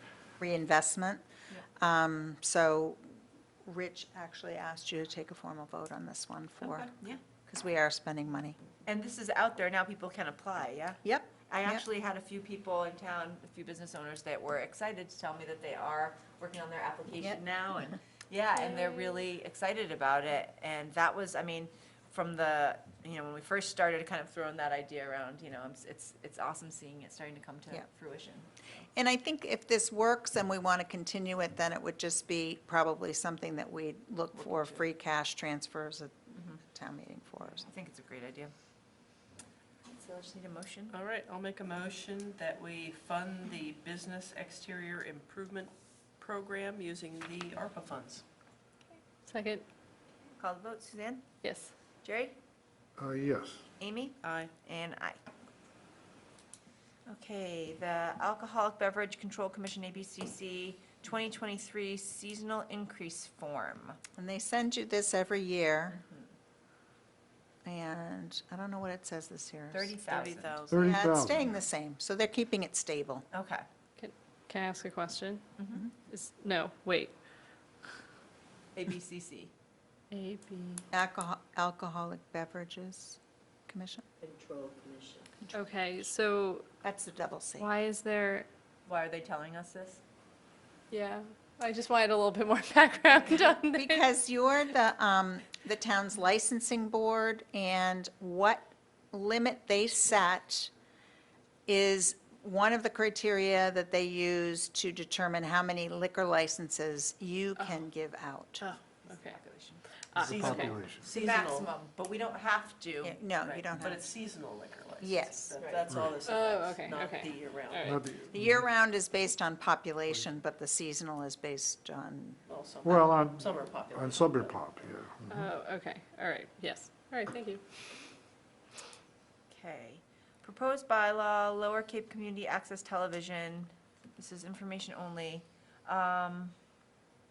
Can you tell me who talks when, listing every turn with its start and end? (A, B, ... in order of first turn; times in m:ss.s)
0:00.4-0:01.2 A
0:01.8-0:03.0 A
0:03.6-0:06.9 A
0:06.6-0:07.2 B
0:07.4-0:08.6 A
0:08.8-0:28.8 B
0:11.0-0:11.8 A
0:18.5-0:19.3 C
0:28.9-0:37.7 A
0:34.4-0:34.8 B
0:37.5-0:38.5 B
0:40.0-0:40.9 B
0:40.9-0:48.2 D
0:49.2-0:49.6 C
0:50.4-0:51.2 B
0:51.4-0:51.7 C
0:52.0-0:52.4 B
0:53.0-0:53.6 E
0:53.8-0:55.2 B
0:54.2-0:54.5 D
0:57.1-1:04.0 B
1:04.2-1:06.0 A
1:06.0-1:06.3 B
1:07.6-1:09.9 A
1:09.7-1:10.7 B
1:10.0-1:11.1 D
1:10.7-1:11.4 E
1:10.8-1:13.2 A
1:13.3-1:13.6 B
1:14.0-1:15.5 C
1:15.6-1:15.8 B
1:16.1-1:17.1 C
1:18.7-1:19.5 B
1:20.1-1:20.8 C
1:20.9-1:24.0 A
1:24.2-1:25.2 D
1:25.4-1:26.1 A
1:25.5-1:26.7 C
1:26.8-1:27.7 A
1:27.6-1:28.5 C
1:28.8-1:30.0 B
1:30.9-1:34.1 C
1:33.7-1:40.7 A
1:41.7-1:48.6 A
1:47.6-1:47.8 C
1:48.6-1:49.4 C
1:49.0-1:53.7 B
1:50.1-1:50.8 C
1:50.2-1:51.0 E
1:50.2-1:51.7 D
1:53.0-1:54.0 A
1:53.7-1:58.0 D
1:55.0-1:55.5 A
1:55.6-1:55.9 B
1:56.2-1:58.0 C
1:57.8-1:58.6 E
1:58.3-2:02.4 A
2:02.5-2:04.6 D
2:02.8-2:05.5 E
2:05.3-2:07.6 C
2:09.5-2:16.5 B